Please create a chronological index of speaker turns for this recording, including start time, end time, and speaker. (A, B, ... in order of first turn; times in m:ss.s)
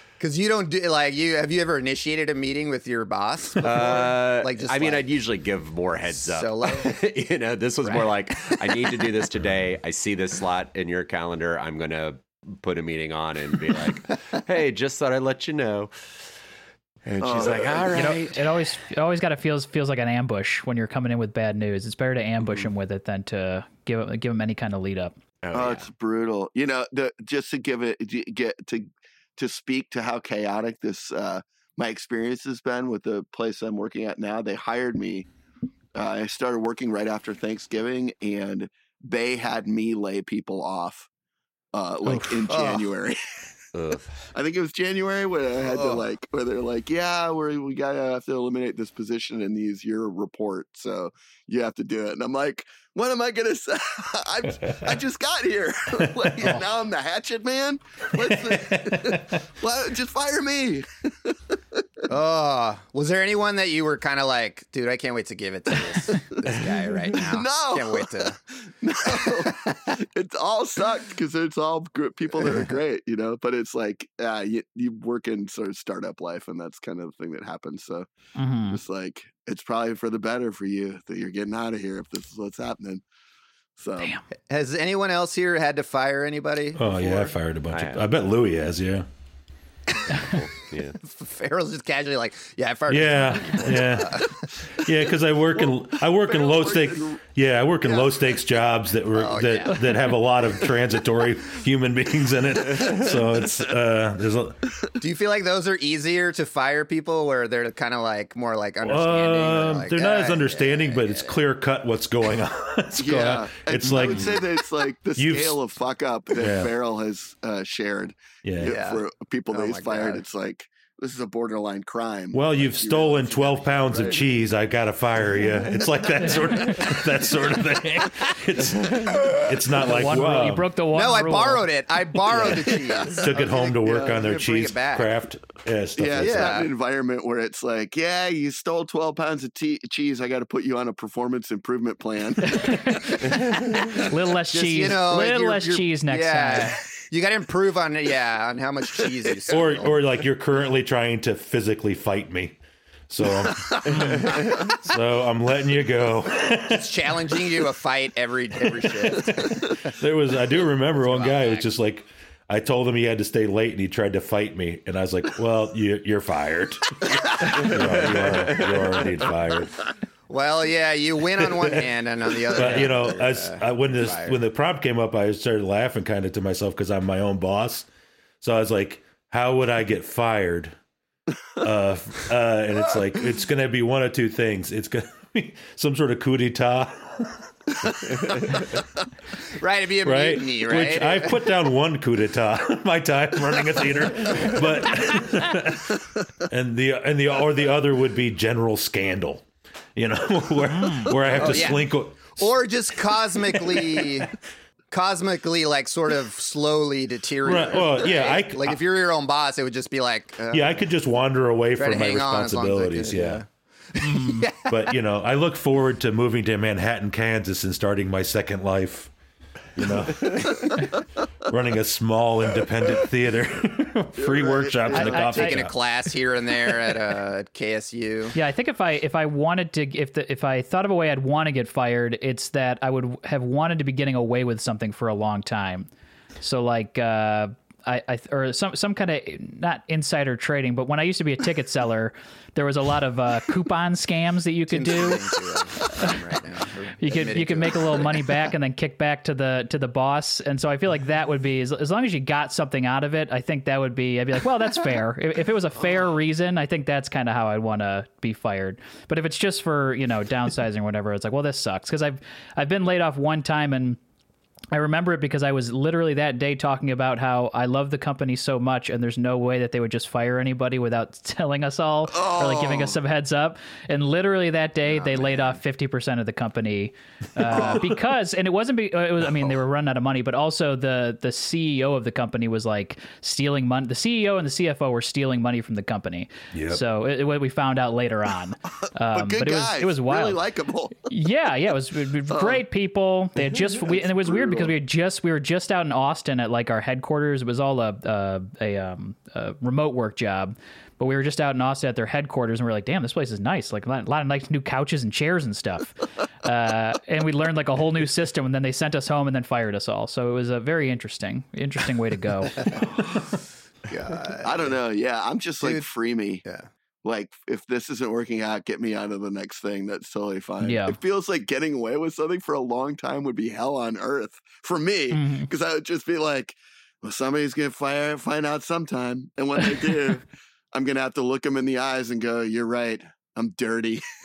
0:00.2-0:05.1 A
0:03.6-0:15.9 B
0:06.1-0:07.0 A
0:07.8-0:09.1 A
0:17.0-0:18.4 B
0:17.2-0:18.2 C
0:17.9-0:25.2 D
0:22.4-0:22.7 B
0:25.4-0:25.9 B
0:25.5-0:35.3 C
0:36.0-0:41.1 C
0:41.7-0:43.2 C
0:42.2-0:42.9 A
0:43.7-0:44.1 B
0:44.3-1:01.8 C
0:45.6-0:46.1 A
0:56.2-0:56.6 E
0:58.2-0:59.4 E
1:02.1-1:08.4 A
1:06.2-1:18.1 C
1:09.0-1:09.9 A
1:12.4-1:12.7 A
1:18.4-1:18.8 D
1:18.7-1:23.0 C
1:23.8-1:24.1 C
1:24.5-1:27.3 A
1:26.8-1:29.0 E
1:27.7-1:28.1 B
1:30.1-1:31.0 B
1:31.0-1:34.4 A
1:32.9-1:34.3 E
1:34.8-1:44.6 E
1:35.6-1:37.2 C
1:37.8-1:38.1 C
1:39.1-1:39.8 A
1:45.0-1:51.4 A
1:48.8-1:55.6 E
1:53.0-2:04.1 C
1:56.3-1:56.7 E
1:58.4-1:58.8 E
1:58.6-2:00.2 A
2:02.3-2:10.7 E
2:03.9-2:04.2 A
2:06.5-2:06.8 D
2:09.9-2:11.7 D
2:10.9-2:15.1 A
2:13.2-2:16.6 E
2:13.3-2:14.2 C
2:16.0-2:24.0 C
2:16.2-2:16.7 A
2:22.5-2:23.1 D
2:24.0-2:26.7 D
2:24.5-2:30.0 A
2:29.5-2:32.6 E
2:33.1-2:36.8 E
2:33.7-2:34.5 C
2:36.7-2:39.8 A
2:39.9-2:49.8 E
2:40.9-2:41.7 A
2:47.9-2:48.7 B
2:50.3-2:54.4 A
2:52.5-2:57.9 E
2:58.4-3:00.8 E
3:01.6-3:07.4 E
3:09.5-3:11.5 A
3:10.0-3:22.5 E
3:20.7-3:21.1 D
3:21.4-3:24.3 A
3:23.7-3:24.1 E
3:24.9-3:30.7 A
3:27.4-3:28.8 E
3:30.5-3:33.4 E
3:31.8-3:35.0 A
3:34.0-3:39.1 E
3:39.8-3:45.7 E
3:44.2-3:45.2 C
3:44.9-3:48.4 A
3:45.0-3:45.6 D
3:48.4-3:55.9 D
3:56.4-4:05.2 D
4:04.7-4:08.2 A
4:05.8-4:06.2 D
4:07.0-4:24.0 D
4:24.7-4:50.4 D
4:32.1-4:33.0 C
4:34.8-4:35.6 A
4:37.5-4:37.8 C
4:46.5-4:46.8 E
4:49.1-4:51.0 C
4:51.0-5:12.7 D
4:52.3-4:52.6 C
4:53.7-4:54.7 C
5:12.6-5:12.9 A
5:13.9-5:14.8 A
5:14.4-5:16.4 C
5:15.6-5:15.9 A
5:17.0-5:34.0 C
5:20.6-5:21.0 D
5:25.1-5:25.5 D